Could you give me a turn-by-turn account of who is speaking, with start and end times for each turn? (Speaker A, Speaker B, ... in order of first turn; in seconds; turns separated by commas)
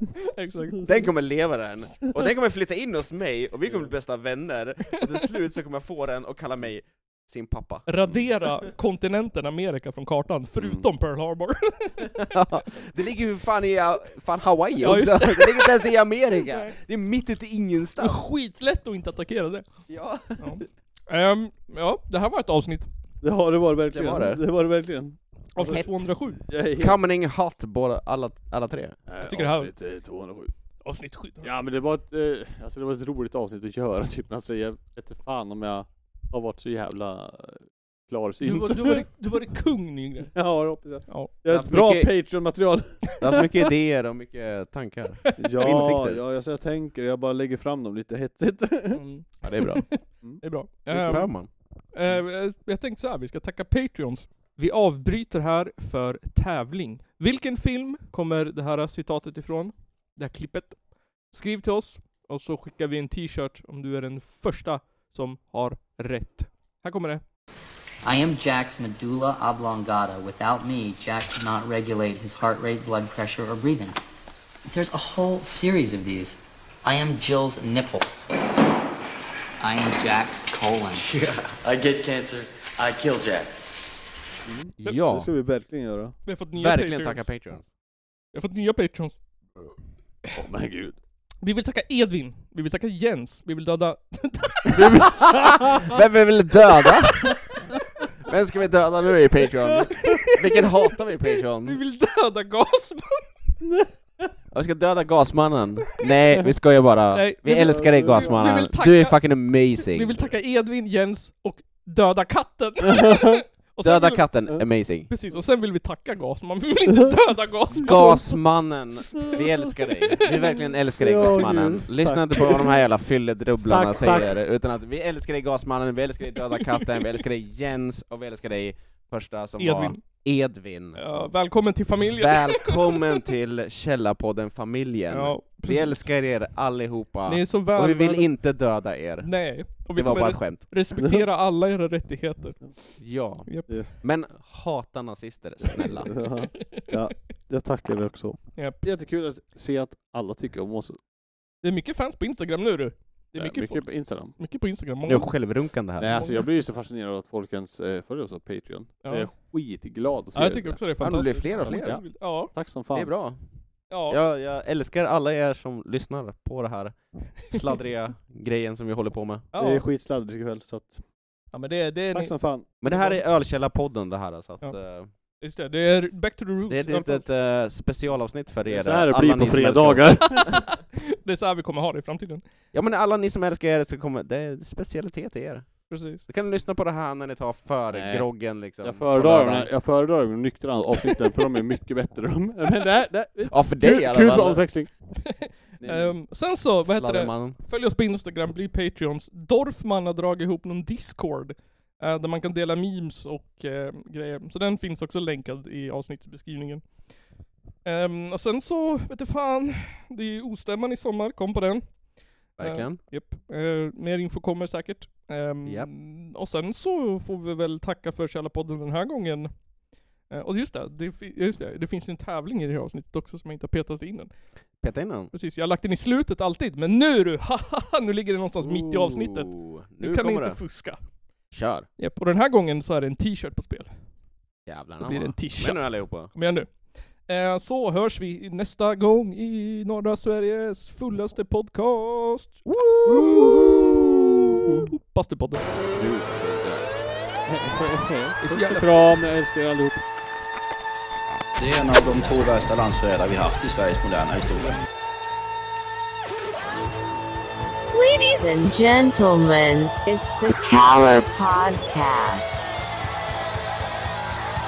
Speaker A: 0.3-1.1, Speaker B: 0.8-7.9, Speaker A: 7.9-12.3, Speaker C: 10.6-10.8, Speaker B: 12.1-18.2, Speaker A: 14.8-15.7, Speaker A: 16.5-16.7, Speaker A: 18.0-19.6, Speaker B: 19.9-20.5, Speaker A: 20.4-22.9, Speaker C: 23.2-25.8, Speaker B: 23.9-24.4, Speaker A: 25.5-26.4, Speaker B: 25.7-26.0, Speaker C: 26.5-27.0, Speaker B: 26.8-29.0, Speaker C: 29.1-30.5, Speaker A: 29.2-29.7, Speaker A: 30.8-31.5, Speaker C: 31.4-39.1, Speaker A: 38.4-40.3, Speaker C: 40.3-43.4, Speaker B: 41.5-42.1, Speaker B: 43.2-46.2, Speaker A: 45.2-45.6, Speaker C: 45.4-49.0, Speaker A: 48.9-51.3, Speaker B: 49.4-50.0, Speaker B: 50.9-51.5, Speaker A: 51.9-67.2, Speaker D: 68.0-74.0, Speaker D: 74.7-78.3, Speaker D: 79.6-81.0, Speaker E: 81.0-83.5, Speaker C: 84.5-86.2, Speaker B: 84.8-85.3, Speaker A: 86.2-87.2, Speaker B: 86.5-87.7, Speaker A: 88.3-89.2, Speaker C: 90.3-91.0, Speaker A: 91.4-95.0, Speaker B: 94.7-97.4, Speaker C: 94.8-95.9, Speaker B: 98.2-101.8, Speaker A: 101.6-103.3, Speaker C: 103.6-104.3, Speaker B: 104.5-110.3, Speaker A: 107.1-114.3, Speaker C: 107.5-108.4, Speaker C: 112.9-113.4, Speaker B: 113.8-115.1, Speaker A: 115.1-118.3, Speaker B: 117.7-131.0, Speaker C: 120.2-122.8, Speaker C: 123.6-124.3, Speaker A: 126.7-127.0, Speaker A: 129.6-130.0, Speaker A: 130.9-133.2, Speaker B: 132.1-140.7, Speaker A: 135.1-136.0, Speaker A: 137.3-138.2, Speaker A: 139.2-143.7, Speaker B: 143.0-146.1, Speaker C: 143.7-143.9, Speaker C: 146.1-151.0, Speaker A: 146.2-147.0, Speaker A: 148.6-148.8, Speaker A: 151.6-155.3, Speaker C: 153.3-154.3, Speaker B: 155.1-156.2, Speaker C: 156.0-160.8, Speaker A: 156.1-156.4, Speaker A: 159.0-159.3, Speaker A: 160.3-162.5, Speaker B: 161.0-162.0, Speaker C: 161.6-163.1, Speaker B: 162.9-163.4, Speaker A: 163.9-164.2, Speaker B: 164.1-169.4, Speaker A: 169.5-169.8, Speaker C: 169.6-171.0, Speaker A: 171.5-173.2, Speaker C: 172.1-172.7, Speaker B: 172.8-175.1, Speaker A: 175.4-177.2, Speaker B: 176.7-180.5, Speaker C: 178.7-180.6, Speaker A: 180.8-182.4, Speaker B: 182.7-189.7, Speaker A: 185.9-186.2, Speaker C: 187.9-194.9, Speaker B: 193.5-194.6, Speaker A: 195.2-206.9, Speaker C: 195.8-196.1, Speaker B: 196.8-197.6, Speaker A: 207.8-212.0, Speaker A: 212.5-219.5, Speaker B: 212.6-213.0, Speaker A: 220.3-224.3, Speaker B: 224.8-225.3, Speaker A: 225.3-231.0, Speaker B: 228.6-230.6, Speaker B: 231.5-231.9, Speaker A: 232.0-234.0, Speaker B: 234.7-236.3, Speaker A: 235.0-236.7, Speaker A: 237.3-245.6, Speaker C: 243.1-244.9, Speaker C: 245.9-246.8, Speaker C: 247.5-250.0, Speaker A: 248.5-248.9, Speaker F: 251.6-254.8, Speaker G: 257.9-262.6